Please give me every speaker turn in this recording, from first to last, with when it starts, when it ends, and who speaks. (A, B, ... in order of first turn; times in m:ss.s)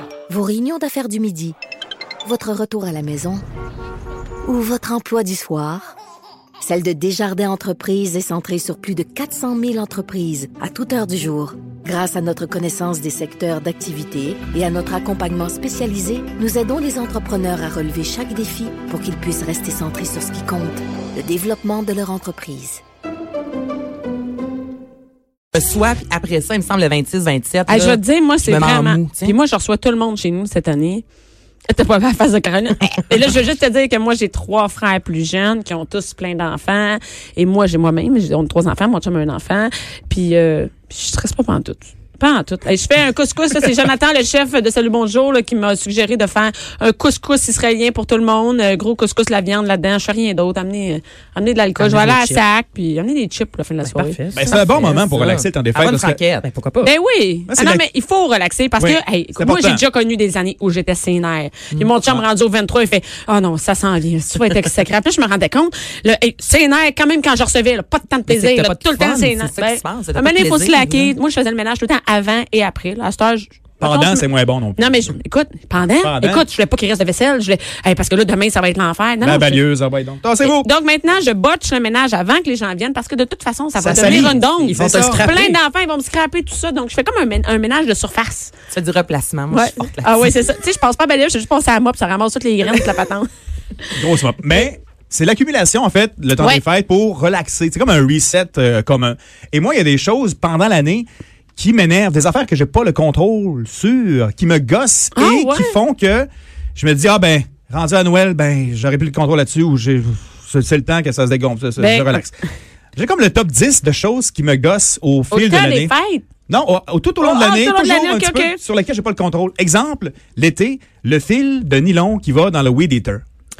0:00.3-0:01.6 A
0:02.2-0:03.4 A
0:04.4-0:05.9 A
0:06.6-0:22.8 A
0:25.5-0:29.4 B
0:27.7-0:31.0 C
0:31.7-0:54.6 C
0:51.8-0:52.4 D
0:53.8-0:55.0 D
0:54.3-0:56.2 E
0:54.9-0:56.5 B
0:56.4-0:56.9 D
0:56.8-1:19.6 C
0:57.5-0:57.8 E
0:58.8-0:59.8 E
1:08.3-1:11.2 B
1:13.8-1:15.2 E
1:16.0-1:16.4 E
1:19.2-1:20.7 E
1:20.4-1:28.5 C
1:23.8-1:25.5 E
1:24.0-1:25.6 D
1:28.7-1:30.3 B
1:29.5-1:33.3 C
1:34.0-1:52.3 E
1:45.2-1:45.7 C
1:51.8-1:52.3 C
1:53.0-1:55.9 E
1:55.3-1:56.2 C
1:56.5-2:03.2 E
1:57.2-1:58.6 C